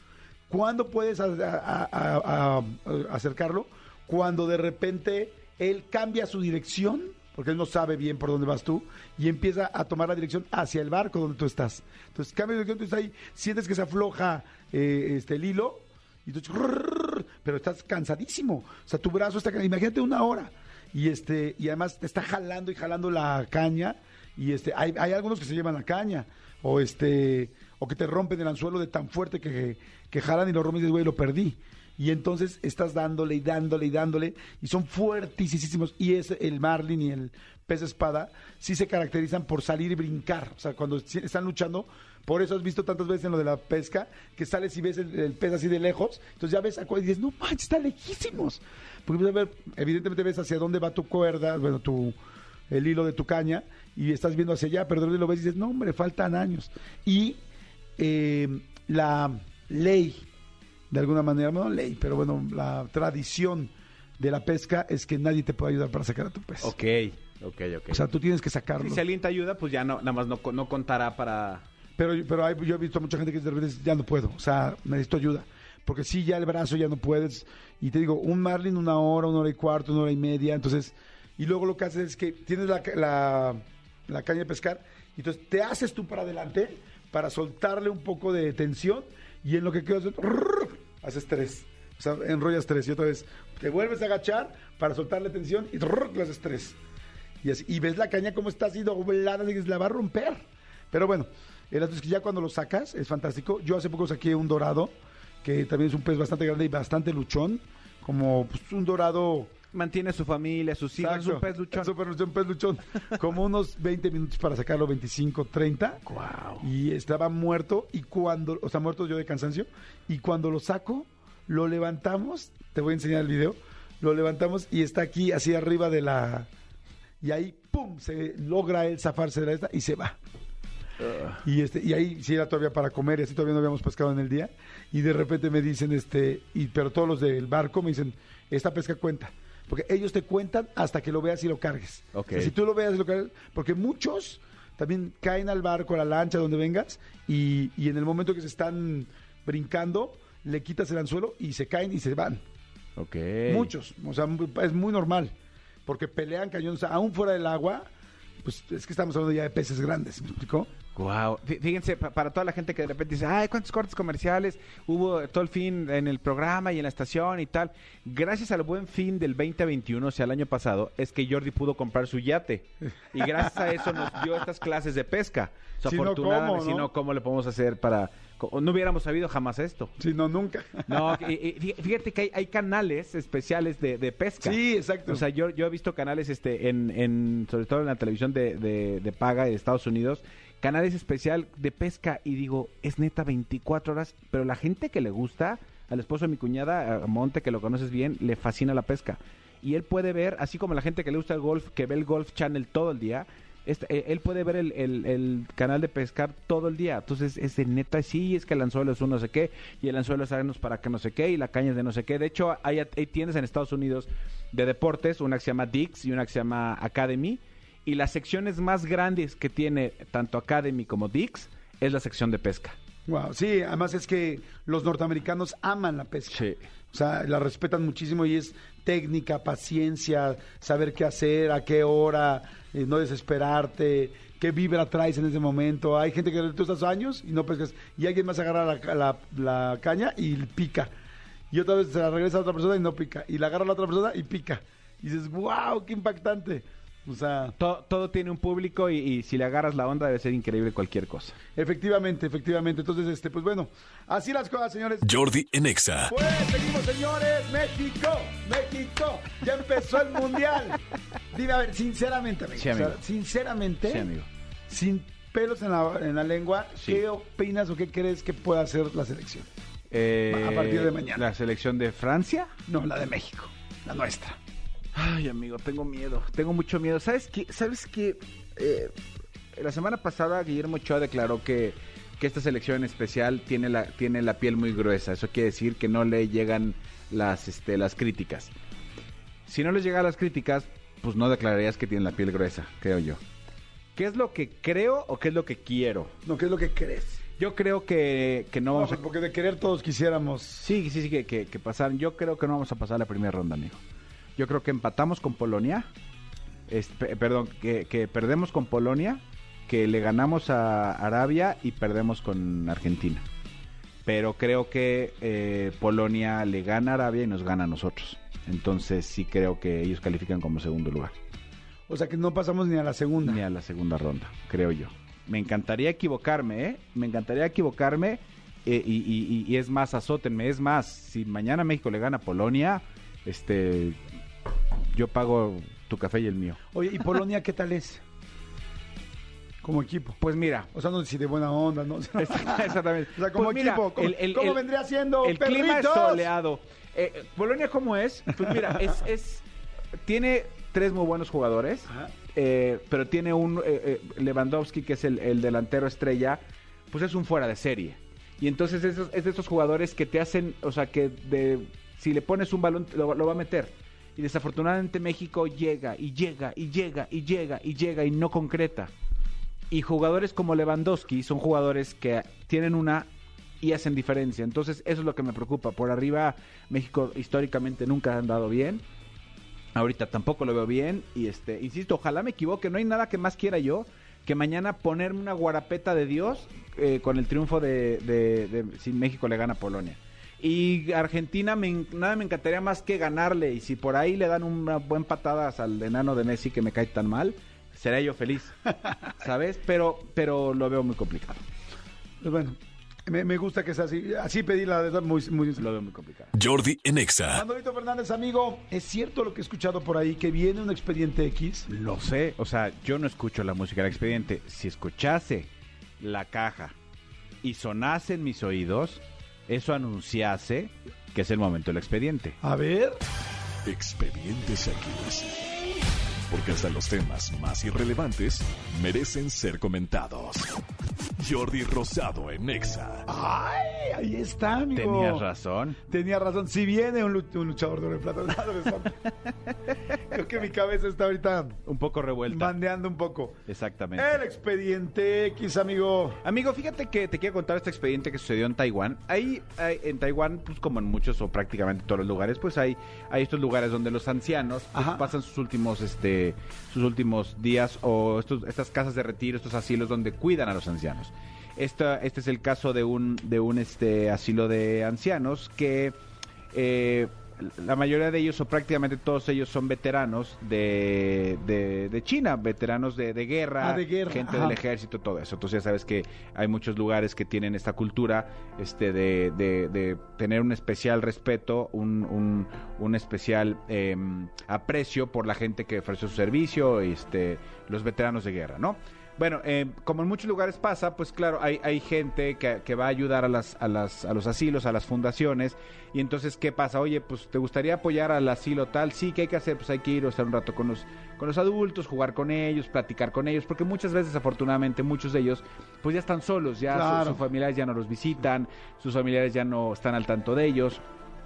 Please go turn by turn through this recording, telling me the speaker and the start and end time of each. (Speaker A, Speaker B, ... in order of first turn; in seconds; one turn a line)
Speaker A: 0.5-52.2
Speaker A: 52.7-57.4
Speaker A: 58.0-60.2
Speaker A: 60.9-66.7
Speaker B: 66.6-68.0
Speaker A: 67.9-69.0
Speaker B: 68.8-71.6
Speaker A: 72.0-96.8
Speaker A: 97.4-109.5
Speaker B: 109.7-111.9
Speaker A: 111.0-116.0
Speaker B: 116.1-116.7
Speaker A: 116.6-126.5
Speaker A: 127.2-130.2
Speaker B: 131.0-131.4
Speaker A: 131.4-152.4
Speaker B: 142.1-142.5
Speaker B: 153.0-153.7
Speaker A: 153.5-155.3
Speaker A: 155.8-157.9
Speaker A: 158.4-160.7
Speaker B: 160.9-179.9
Speaker A: 173.2-174.1
Speaker A: 175.8-176.9
Speaker A: 180.0-181.2
Speaker B: 180.9-222.8
Speaker A: 184.4-185.2
Speaker A: 223.1-240.9
Speaker B: 226.3-226.6
Speaker A: 241.5-247.6
Speaker B: 247.6-251.3
Speaker A: 251.6-255.1
Speaker C: 255.0-256.1
Speaker A: 256.1-260.8
Speaker A: 261.3-264.1
Speaker B: 262.6-262.9
Speaker B: 263.9-264.3
Speaker A: 264.7-269.5
Speaker B: 269.9-272.5
Speaker A: 270.3-271.2
Speaker A: 272.7-274.4
Speaker B: 274.9-278.9
Speaker B: 279.5-288.5
Speaker B: 289.5-293.2
Speaker B: 293.9-296.1
Speaker A: 296.2-297.2
Speaker B: 297.4-299.0
Speaker A: 298.7-300.7
Speaker B: 300.6-303.8
Speaker B: 304.4-305.9
Speaker B: 306.7-313.2
Speaker B: 314.1-321.1
Speaker A: 321.9-323.4
Speaker B: 323.2-334.0
Speaker B: 334.9-336.6
Speaker A: 336.7-338.0
Speaker A: 339.6-340.2
Speaker B: 340.2-340.7
Speaker A: 340.7-346.3
Speaker B: 342.1-344.6
Speaker B: 345.2-349.4
Speaker A: 348.5-348.7
Speaker B: 350.0-368.9
Speaker B: 369.7-373.1
Speaker B: 373.6-378.8
Speaker B: 379.7-398.6
Speaker B: 399.1-401.4
Speaker A: 402.2-405.7
Speaker B: 405.6-406.3
Speaker C: 406.3-407.4
Speaker A: 407.3-411.7
Speaker B: 411.7-415.5
Speaker B: 416.0-416.7
Speaker B: 417.4-422.4
Speaker A: 422.4-423.0
Speaker C: 423.6-425.4
Speaker C: 426.3-430.5
Speaker C: 431.2-433.1
Speaker A: 433.1-435.2
Speaker B: 434.7-435.8
Speaker A: 435.9-439.0
Speaker A: 440.1-441.6
Speaker B: 441.6-442.6
Speaker A: 442.3-443.4
Speaker B: 443.5-444.1
Speaker A: 443.9-446.2
Speaker B: 446.2-465.9
Speaker A: 454.7-455.1
Speaker B: 466.5-510.8
Speaker A: 473.6-474.6
Speaker A: 506.7-507.2